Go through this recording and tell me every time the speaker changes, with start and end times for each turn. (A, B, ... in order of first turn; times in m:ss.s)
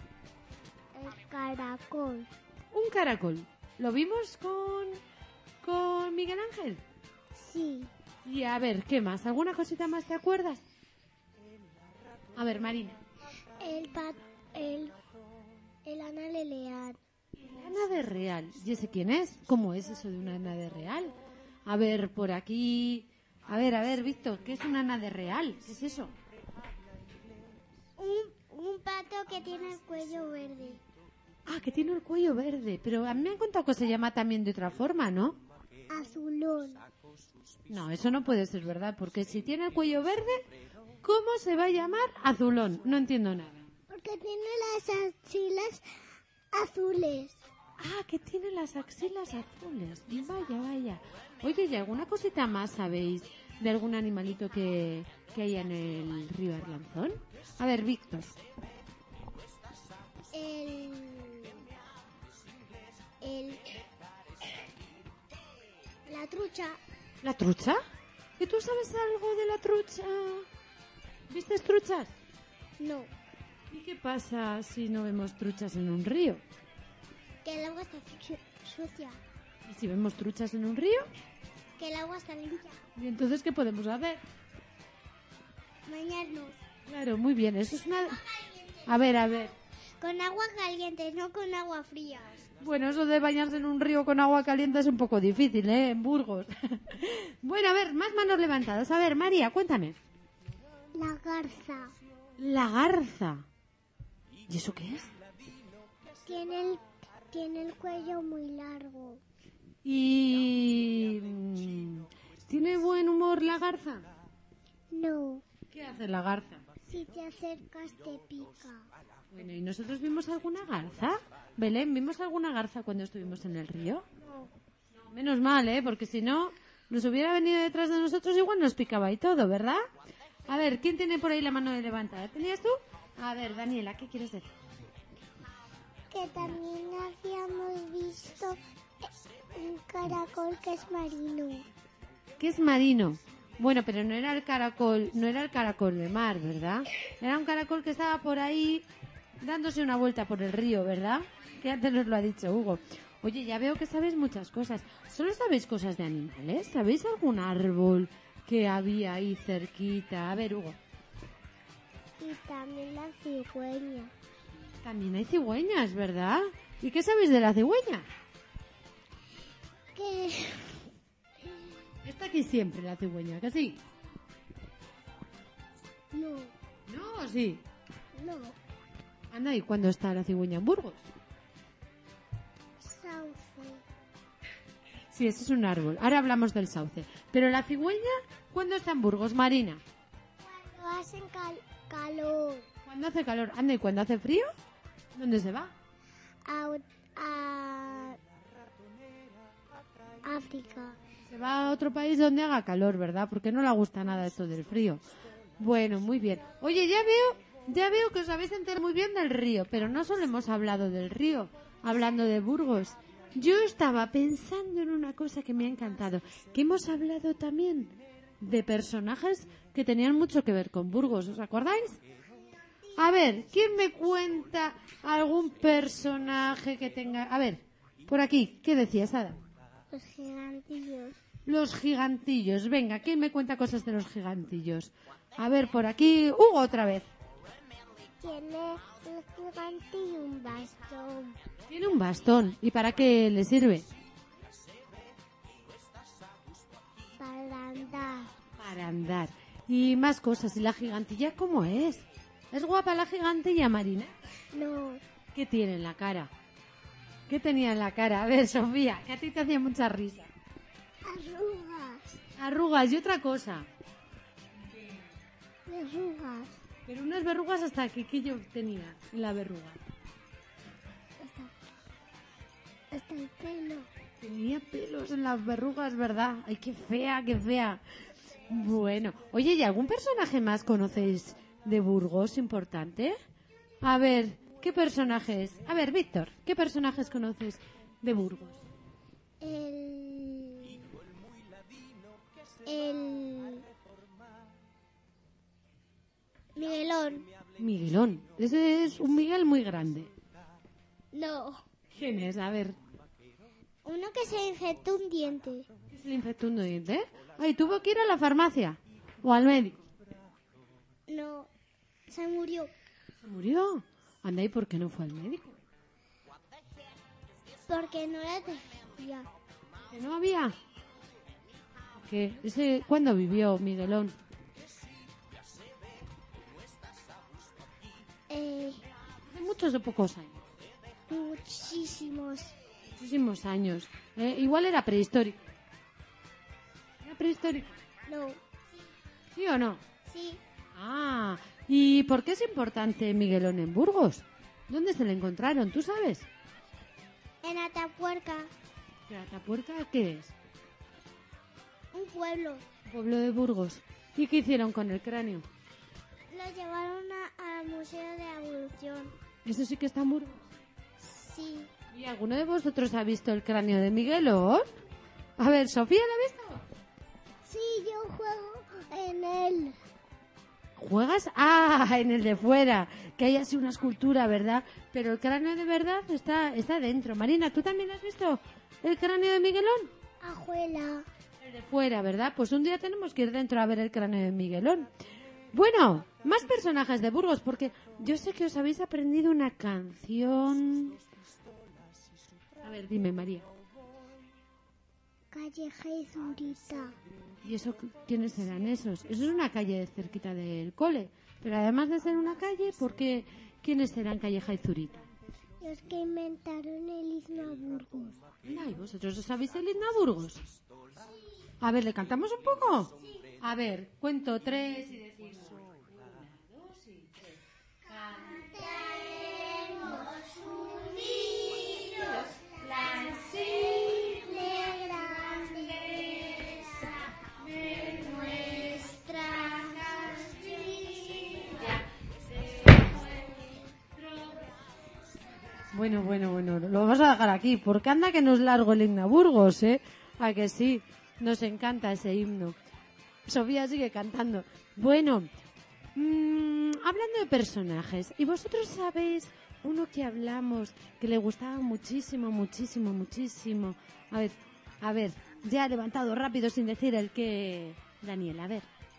0:00.9-0:02.3 A
0:02.7-0:05.0 B
0:05.6-0:06.8 B
0:07.4-0:07.9 A
0:08.2-0:10.6 B
0:12.4-0:13.0 B
0:13.6-0:15.0 A
0:15.8-0:17.0 A
0:17.4-0:26.2 B
0:28.0-0:30.8 A
0:31.5-0:35.4 B
0:35.9-0:36.8 A
0:37.7-0:40.5 B
0:41.0-0:43.7 B
0:43.9-0:45.8 A
0:46.5-0:47.4 A
0:47.8-0:58.4 B
1:00.3-1:01.6 A
1:03.2-1:03.8 A
1:06.1-1:06.8 A
1:07.2-1:07.8 B
1:08.4-1:10.5 B
1:11.3-1:12.1 B
1:12.8-1:13.1 A
1:13.7-1:16.4 B
1:17.4-1:19.2 A
1:19.6-1:21.1 B
1:21.8-1:22.8 A
1:23.0-1:24.2 B
1:25.9-1:26.6 A
1:26.8-1:28.2 B
1:28.1-1:32.5 A
1:28.9-1:29.5 B
1:32.6-1:40.0 B
1:40.9-1:42.0 A
1:42.4-1:43.5 B
1:44.5-1:45.1 B
1:46.2-1:49.2 A
1:49.8-1:54.1 B
1:54.9-1:55.4 A
1:55.7-1:56.6 B
1:56.8-1:58.9 A
1:59.3-2:04.1 B
2:04.2-2:04.5 A
2:04.9-2:09.8 B
2:10.5-2:14.5 B
2:16.1-2:21.7 A
2:22.4-2:28.9 B
2:29.4-2:40.8 B
2:42.2-2:44.1 A
2:44.8-2:48.1 B
2:49.9-2:51.8 A
2:52.0-2:53.8 B
2:56.1-2:56.5 A
2:56.9-2:57.6 B
2:58.2-2:58.6 A
2:59.3-3:01.1 B
3:02.8-3:03.8 A
3:05.1-3:09.8 B
3:10.4-3:12.7 A
3:12.9-3:14.5 B
3:15.1-3:15.8 B
3:16.4-3:18.2 A
3:20.2-3:21.0 A
3:21.3-3:25.0 B
3:25.6-3:42.0 B
3:43.0-3:49.4 B
3:49.9-3:51.2 A
3:51.5-3:57.1 B
3:58.2-4:01.4 A
4:01.7-4:03.9 B
4:07.2-4:08.3 A
4:08.6-4:14.1 B
4:14.5-4:15.0 A
4:15.3-4:16.3 B
4:17.3-4:20.3 B
4:21.0-4:22.2 A
4:22.4-4:23.7 B
4:25.7-4:26.6 A
4:26.8-4:29.8 B
4:31.2-4:31.5 A
4:32.9-4:33.9 A
4:34.2-4:37.8 B
4:38.5-4:43.2 B
4:43.8-4:48.6 B
4:49.4-4:50.9 A
4:52.6-4:53.7 A
4:56.6-4:57.3 A
4:57.6-5:00.1 B
5:01.1-5:01.6 A
5:01.9-5:02.8 B
5:03.8-5:05.7 A
5:05.9-5:09.8 B
5:11.1-5:11.5 A
5:12.1-5:12.7 A
5:13.2-5:15.6 B
5:17.7-5:19.3 A
5:19.9-5:20.6 B
5:21.9-5:24.2 B
5:28.3-5:28.8 A
5:29.3-5:30.4 B
5:31.1-5:32.6 A
5:33.0-5:35.5 B
5:37.0-5:37.8 B
5:38.1-5:38.9 A
5:39.3-5:39.8 B
5:40.0-5:40.4 A
5:40.7-5:46.3 B
5:47.4-5:48.5 A
5:49.1-5:50.3 B
5:51.9-5:52.7 A
5:52.9-5:55.5 B
5:56.3-5:59.2 A
5:59.4-6:00.4 B
6:01.0-6:01.7 A
6:01.9-6:04.7 B
6:05.4-6:06.7 B
6:07.4-6:09.8 A
6:10.8-6:19.9 B
6:20.2-6:21.1 A
6:21.4-6:24.9 B
6:25.5-6:31.0 B
6:32.6-6:33.5 B
6:35.3-6:37.0 A
6:37.4-6:45.1 B
6:45.6-6:48.2 A
6:48.4-6:50.4 B
6:51.6-6:58.4 B
6:57.9-7:11.8 A
7:02.6-7:04.2 B
7:05.5-7:06.4 B
7:07.3-7:08.0 B
7:12.4-7:13.7 A
7:15.7-7:22.6 B
7:23.3-7:25.3 B
7:26.0-7:38.7 B